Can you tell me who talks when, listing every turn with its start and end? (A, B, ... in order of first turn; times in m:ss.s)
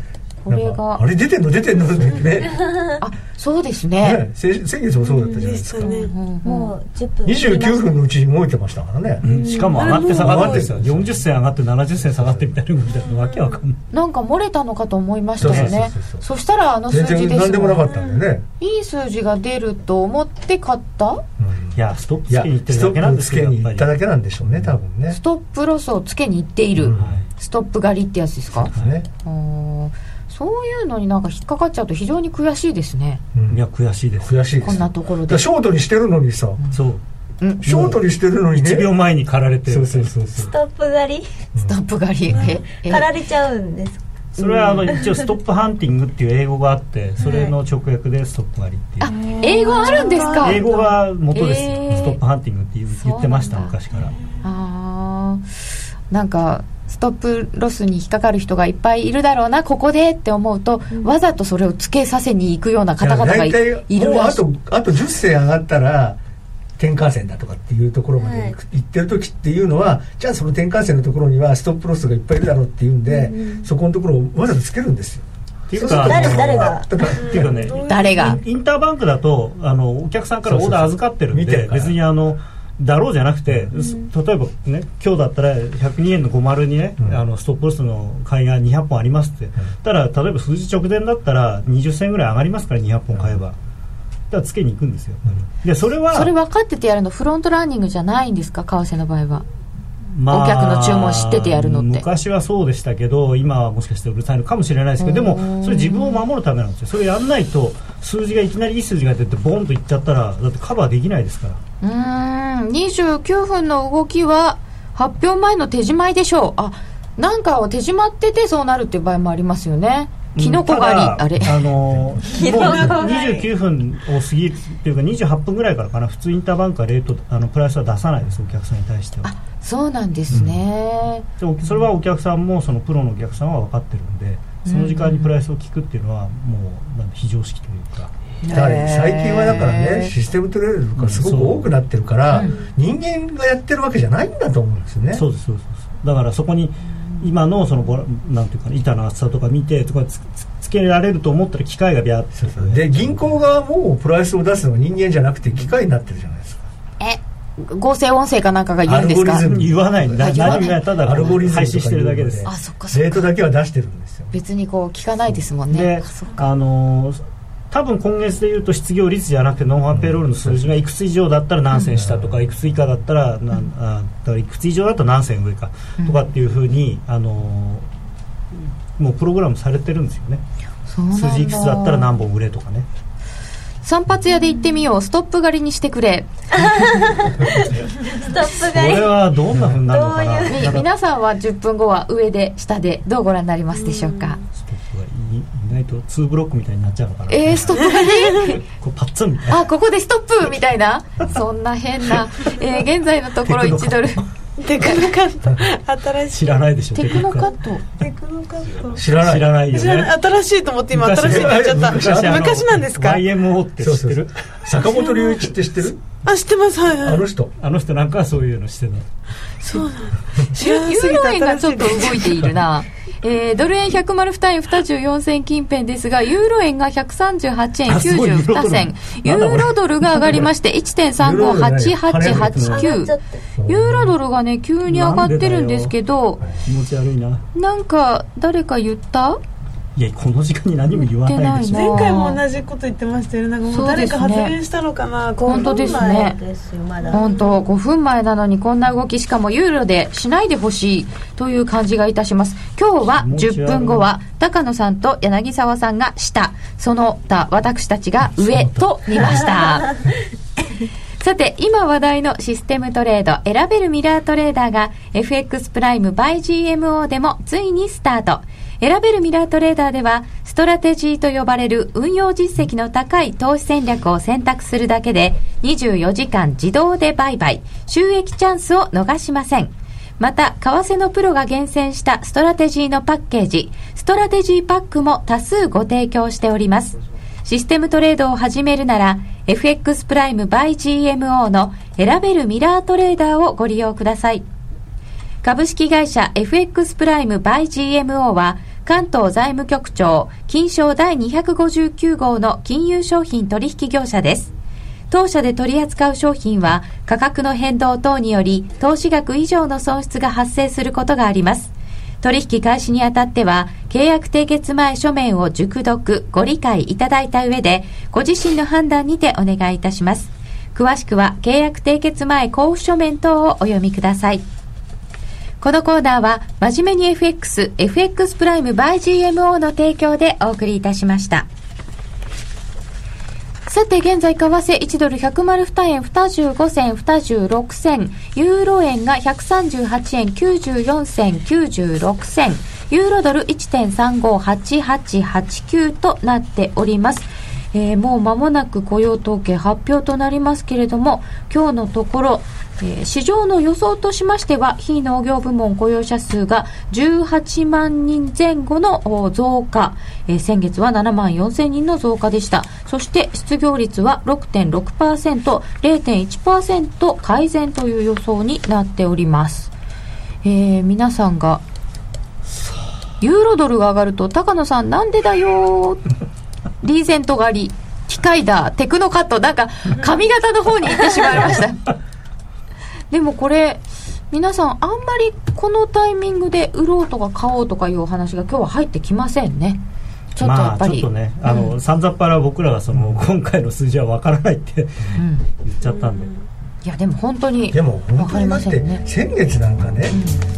0:00.4-0:01.0 A
0:00.5-0:02.6 B
0:02.4-0:02.8 C
0:03.0-0:04.2 A
0:04.0-0:06.0 B
0:05.2-0:06.2 D
0:05.8-0:06.7 A
0:06.4-0:08.0 C
0:07.2-0:09.2 B
0:09.2-0:13.8 E
0:09.2-0:10.0 C
0:09.8-0:10.6 D
0:10.0-0:11.3 B
0:12.0-0:12.6 B
0:13.1-0:13.6 D
0:13.9-0:17.9 A
0:15.4-0:16.2 B
0:15.4-0:15.8 E
0:16.9-0:18.5 B
0:18.6-0:21.2 A
0:21.4-0:25.2 B
0:21.8-0:23.9 E
0:25.1-0:28.7 A
0:26.8-0:27.2 B
0:27.0-0:27.3 E
0:28.6-0:29.1 B
0:29.2-0:33.2 A
0:33.4-0:33.6 B
0:33.5-0:34.8 E
0:34.2-0:36.6 B
0:34.6-0:35.5 A
0:36.7-0:37.0 E
0:37.6-0:38.9 B
0:37.6-0:38.0 E
0:38.5-0:40.1 E
0:39.7-0:40.5 B
0:40.4-0:41.3 C
0:41.7-0:43.1 A
0:42.8-0:44.0 C
0:44.4-0:44.9 A
0:44.4-0:49.1 E
0:44.9-0:45.2 C
0:47.2-0:47.5 C
0:49.0-0:52.2 A
0:49.0-0:50.7 C
0:50.0-0:50.4 D
0:50.1-0:54.1 E
0:52.9-0:53.8 A
0:54.4-0:55.4 A
0:56.1-1:04.4 A
1:03.0-1:06.2 B
1:06.8-1:17.7 B
1:08.2-1:08.6 C
1:13.1-1:13.7 C
1:15.7-1:33.6 E
1:15.8-1:17.1 C
1:17.2-1:18.4 D
1:17.8-1:18.4 A
1:20.5-1:22.0 B
1:23.8-1:24.1 C
1:34.3-1:36.3 E
1:36.1-1:39.5 A
1:40.1-1:51.6 E
1:40.3-1:42.1 A
1:45.0-1:46.2 A
1:51.8-2:01.6 A
2:00.4-2:09.4 E
2:02.3-2:03.3 C
2:02.4-2:03.4 D
2:09.2-2:11.3 A
2:10.3-2:10.6 E
2:11.4-2:18.1 E
2:14.7-2:15.3 A
2:18.4-2:20.1 A
2:18.5-2:25.2 B
2:21.0-2:21.7 E
2:25.1-2:33.4 E
2:32.4-2:36.7 B
2:37.0-2:39.5 A
2:38.9-2:44.4 B
2:39.5-2:42.5 E
2:40.2-2:40.8 A
2:42.4-2:43.2 A
2:44.3-2:46.4 A
2:45.7-2:47.2 E
2:47.7-2:57.9 E
2:49.9-2:50.8 B
2:52.0-2:52.6 B
2:58.6-3:00.4 E
3:00.9-3:02.1 A
3:01.1-3:02.9 E
3:03.8-3:06.9 A
3:06.7-3:09.2 C
3:08.6-3:10.9 E
3:09.9-3:10.8 C
3:10.5-3:14.4 A
3:13.8-3:14.4 D
3:14.5-3:19.6 E
3:17.3-3:18.6 A
3:19.5-3:24.2 A
3:23.4-3:24.3 E
3:24.6-3:29.0 D
3:26.3-3:27.5 E
3:27.0-3:27.8 A
3:28.9-3:29.5 B
3:29.1-3:30.2 E
3:29.7-3:33.2 D
3:30.9-3:34.5 E
3:31.2-3:32.6 B
3:33.8-3:36.0 B
3:34.9-3:35.5 D
3:36.2-3:37.2 D
3:37.0-3:37.5 B
3:37.6-3:39.1 E
3:39.7-3:42.5 D
3:40.5-3:53.1 A
3:47.9-3:50.4 E
3:51.2-3:52.8 B
3:52.3-3:52.8 E
3:52.3-3:53.4 C
3:53.6-3:54.2 B
3:53.7-3:56.4 A
3:54.9-3:55.9 E
3:56.6-3:57.4 E
3:57.5-3:59.4 A
4:00.0-4:02.2 E
4:01.2-4:02.4 A
4:01.7-4:06.2 D
4:03.7-4:04.6 A
4:05.4-4:07.3 C
4:05.4-4:06.4 A
4:07.0-4:07.6 D
4:07.1-4:20.0 A
4:13.2-4:14.1 E
4:18.4-4:19.5 E
4:21.2-4:54.5 A
4:55.4-5:04.5 A
5:05.1-5:24.5 A
5:25.6-5:31.5 A
5:33.7-6:09.7 A
6:10.4-6:11.6 A
6:13.2-6:16.0 A
6:16.8-6:21.9 A
6:23.1-6:29.8 A
6:30.4-6:31.8 A
6:30.4-6:36.3 E
6:32.9-6:33.2 B
6:35.2-6:35.5 A
6:35.8-6:36.5 D
6:36.8-6:39.0 A
6:37.7-6:40.2 B
6:40.1-6:40.4 A